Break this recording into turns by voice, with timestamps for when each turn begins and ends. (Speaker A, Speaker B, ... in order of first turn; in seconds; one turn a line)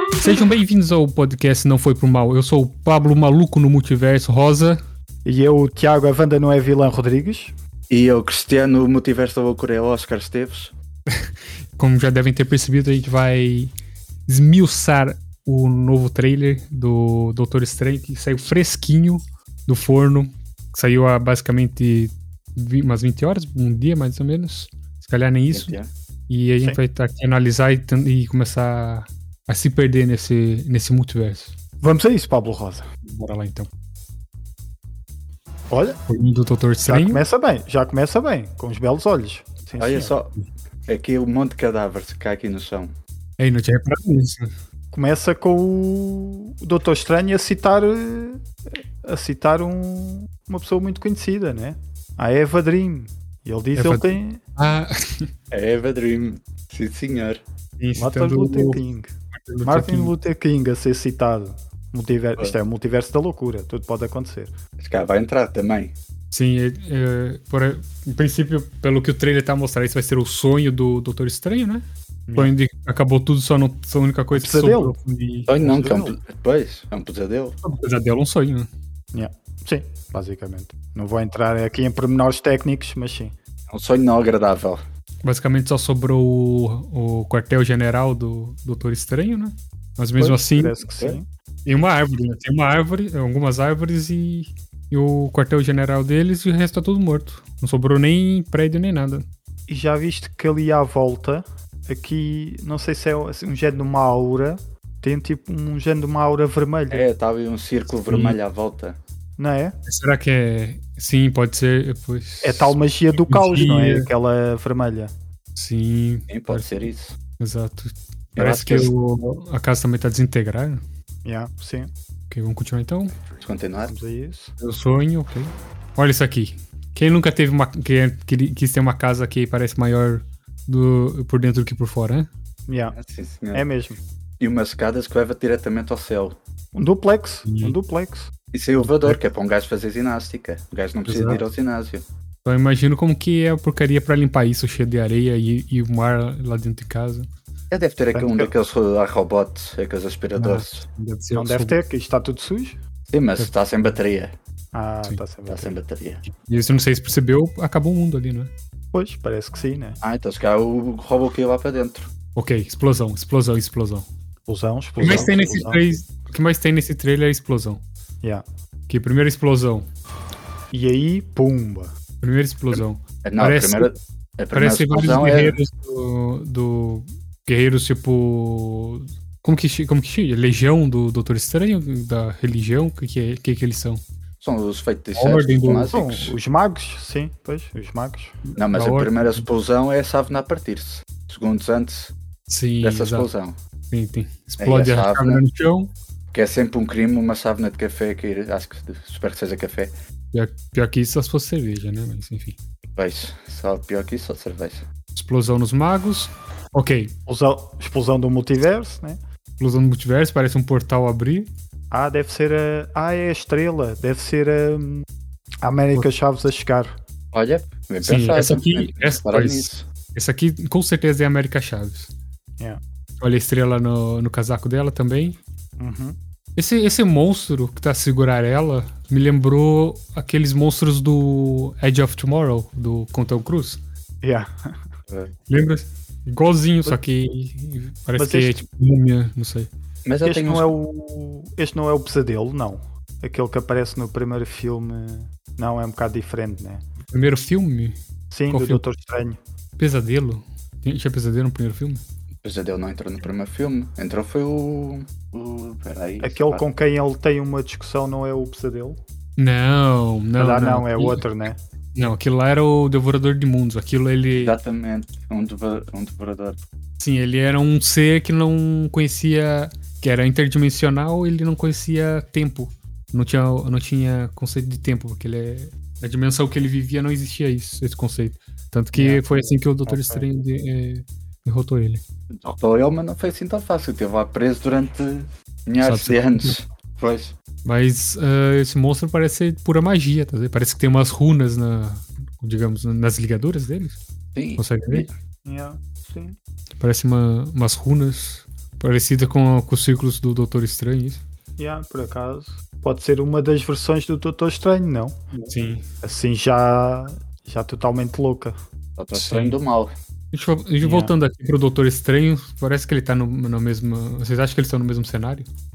Speaker A: 0.2-4.8
Speaker B: 5.2-7.5
Speaker C: 7.9-10.7
Speaker A: 11.1-13.7
Speaker A: 14.3-25.8
Speaker C: 25.5-25.9
Speaker A: 26.3-31.5
Speaker B: 31.8-32.9
Speaker A: 33.0-33.7
Speaker B: 35.7-36.0
Speaker A: 36.1-37.2
Speaker B: 36.9-40.1
Speaker C: 39.8-40.3
Speaker C: 40.9-43.0
Speaker A: 43.4-44.5
Speaker B: 44.9-54.4
Speaker A: 53.8-55.3
Speaker C: 55.5-57.4
Speaker A: 57.8-58.8
Speaker B: 58.0-59.1
Speaker A: 59.3-60.1
Speaker B: 59.6-64.5
Speaker C: 64.8-65.9
Speaker A: 66.3-71.8
Speaker A: 72.4-75.8
Speaker B: 74.3-74.9
Speaker C: 75.5-77.6
Speaker B: 75.6-76.2
Speaker A: 77.6-78.7
Speaker B: 79.1-83.3
Speaker C: 83.7-84.8
Speaker A: 85.2-90.8
Speaker B: 90.2-91.2
Speaker A: 91.7-99.2
Speaker B: 99.7-107.1
Speaker C: 106.9-109.0
Speaker A: 108.1-108.4
Speaker B: 109.4-109.8
Speaker A: 109.9-112.7
Speaker B: 112.4-115.1
Speaker A: 113.3-114.1
Speaker A: 115.5-116.8
Speaker C: 116.3-117.2
Speaker A: 117.4-120.8
Speaker C: 118.4-118.9
Speaker B: 121.2-121.9
Speaker A: 122.3-123.1
Speaker C: 123.4-123.9
Speaker B: 123.8-124.5
Speaker A: 124.6-132.3
Speaker B: 132.7-132.9
Speaker C: 132.9-133.7
Speaker B: 133.5-134.0
Speaker C: 134.4-136.4
Speaker B: 136.7-138.3
Speaker A: 137.5-137.7
Speaker C: 138.5-142.0
Speaker A: 138.8-139.2
Speaker A: 141.1-141.4
Speaker A: 142.4-147.3
Speaker C: 147.7-150.8
Speaker B: 148.1-148.5
Speaker A: 150.4-151.8
Speaker B: 151.3-152.8
Speaker C: 153.1-154.3
Speaker B: 154.7-155.8
Speaker C: 155.5-156.2
Speaker A: 156.2-158.5
Speaker B: 158.9-160.0
Speaker C: 160.0-162.1
Speaker A: 162.3-164.1
Speaker B: 164.5-165.8
Speaker A: 165.0-167.8
Speaker C: 165.0-165.3
Speaker A: 168.9-169.9
Speaker B: 170.7-171.9
Speaker A: 172.2-173.9
Speaker C: 173.2-175.6
Speaker A: 174.5-184.0
Speaker C: 184.4-186.3
Speaker A: 185.2-185.9
Speaker B: 185.9-188.4
Speaker C: 188.6-192.1
Speaker A: 188.7-189.4
Speaker A: 192.5-193.3
Speaker C: 192.8-193.6
Speaker A: 193.9-195.9
Speaker C: 194.6-195.4
Speaker C: 196.3-199.9
Speaker A: 200.3-202.6
Speaker C: 202.9-204.8
Speaker A: 205.1-207.1
Speaker B: 207.3-209.2
Speaker A: 209.6-211.5
Speaker B: 211.9-215.1
Speaker B: 215.6-216.9
Speaker C: 217.3-219.9
Speaker A: 218.0-222.1
Speaker A: 223.2-225.4
Speaker B: 225.8-226.2
Speaker A: 226.6-233.8
Speaker B: 234.2-234.7
Speaker A: 235.5-239.7
Speaker B: 238.2-238.6
Speaker C: 240.0-240.7
Speaker B: 240.2-246.8
Speaker A: 247.1-248.0
Speaker B: 248.3-249.4
Speaker A: 248.5-248.8
Speaker A: 249.8-252.0
Speaker C: 252.4-256.6
Speaker B: 256.2-259.0
Speaker A: 259.4-261.2
Speaker B: 260.4-261.6
Speaker A: 261.9-264.6
Speaker C: 264.4-266.6
Speaker A: 267.0-282.0
Speaker B: 278.9-280.2
Speaker C: 282.3-287.4
Speaker A: 285.8-286.6
Speaker A: 287.6-294.0
Speaker C: 294.3-295.1
Speaker A: 294.6-295.1
Speaker B: 295.4-296.4
Speaker A: 296.8-301.2
Speaker B: 301.6-305.2
Speaker A: 305.5-305.8
Speaker B: 306.0-308.6
Speaker C: 309.0-309.9
Speaker A: 309.1-309.6
Speaker A: 310.3-315.5
Speaker B: 310.8-311.1